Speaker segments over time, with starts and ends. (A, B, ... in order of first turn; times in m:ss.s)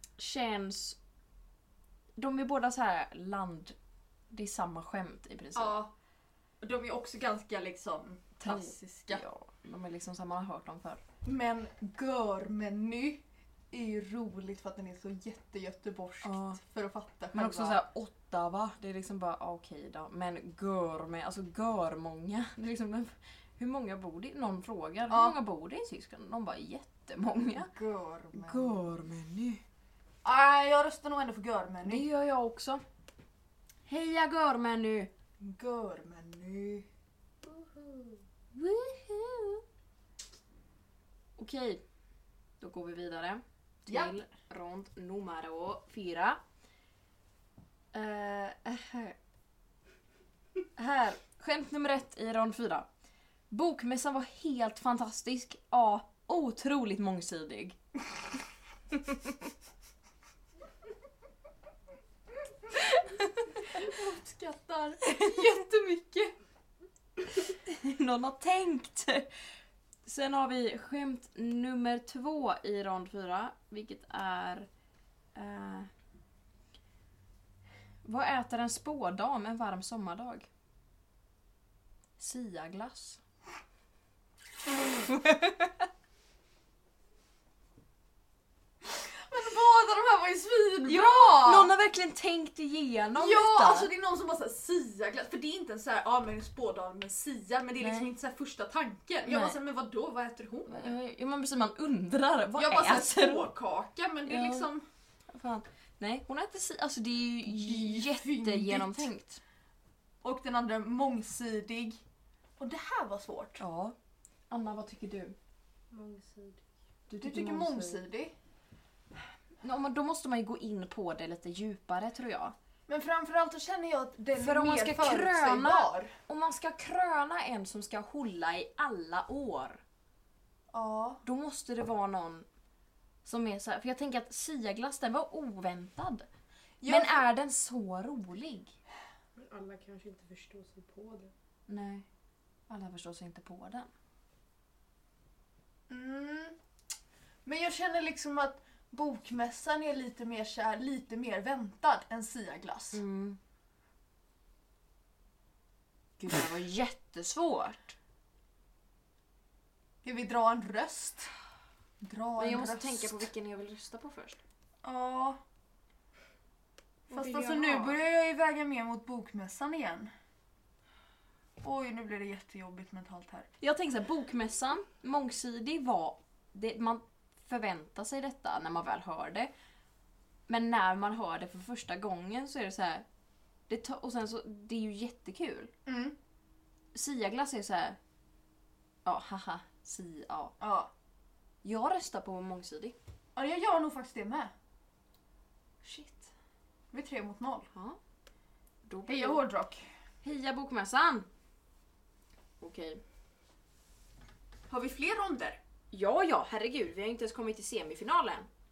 0:00.2-0:01.0 A
0:02.2-0:03.8 A
0:04.3-0:05.8 A
0:05.5-0:05.9 B
0:06.6-0:09.2 B
0:08.4-0:11.0 A
0:11.2-0:17.8 B
0:16.2-0:16.6 A
0:17.3-0:27.7 A
0:25.1-0:25.4 B
0:27.6-0:28.8 B
0:28.3-0:29.6 A
0:30.2-0:32.0 B
0:31.8-0:32.8 A
0:33.9-0:35.1 A
0:35.4-0:36.8 B
0:38.5-0:39.6 A
0:41.4-0:41.8 A
0:42.6-0:46.4 A
0:43.9-0:44.2 B
0:47.9-0:49.2 A
0:50.8-0:52.9 A
0:53.5-0:57.8 A
0:58.9-0:59.4 A
1:03.1-1:03.7 A
1:03.6-1:06.3 B
1:07.6-1:09.3 A
1:10.0-1:14.7 A
1:15.3-1:15.9 A
1:18.0-1:20.5 A
1:22.2-1:23.2 A
1:25.0-1:25.7 A
1:28.8-1:31.7 B
1:30.9-1:33.9 A
1:33.1-1:40.9 B
1:37.8-1:38.1 A
1:39.2-1:39.6 A
1:40.7-1:43.5 A
1:42.6-1:44.8 B
1:44.2-1:44.7 A
1:45.3-1:49.4 A
1:47.4-1:49.1 B
1:50.2-1:52.0 B
1:52.6-1:53.6 B
1:53.6-1:53.9 A
1:54.5-1:55.4 A
1:55.9-1:56.6 C
1:57.1-1:58.0 A
1:57.2-1:58.3 B
1:59.6-2:02.5 A
2:02.9-2:06.1 B
2:04.4-2:09.8 A
2:10.7-2:11.2 B
2:11.2-2:12.5 A
2:13.2-2:16.3 A
2:16.8-2:17.2 B
2:16.8-2:18.7 A
2:19.4-2:21.3 C
2:21.7-2:22.0 A
2:22.7-2:23.9 A
2:25.9-2:26.6 B
2:27.4-2:33.0 B
2:32.9-2:33.4 A
2:36.2-2:38.0 A
2:40.0-2:41.3 B
2:42.0-2:43.2 B
2:42.4-2:44.4 A
2:44.8-2:45.4 B
2:47.1-2:50.1 B
2:47.1-2:48.0 A
2:51.6-2:53.5 B
2:53.6-2:59.5 A
3:00.5-3:03.0 A
3:03.7-3:05.7 A
3:05.8-3:06.2 B
3:06.9-3:08.0 A
3:09.0-3:10.5 A
3:10.6-3:10.9 B
3:11.6-3:13.0 A
3:13.4-3:14.5 B
3:15.8-3:16.3 A
3:16.9-3:17.7 B
3:18.8-3:19.4 A
3:19.1-3:19.8 B
3:20.2-3:21.3 A
3:22.6-3:23.0 A
3:24.7-3:25.6 B
3:25.9-3:28.5 A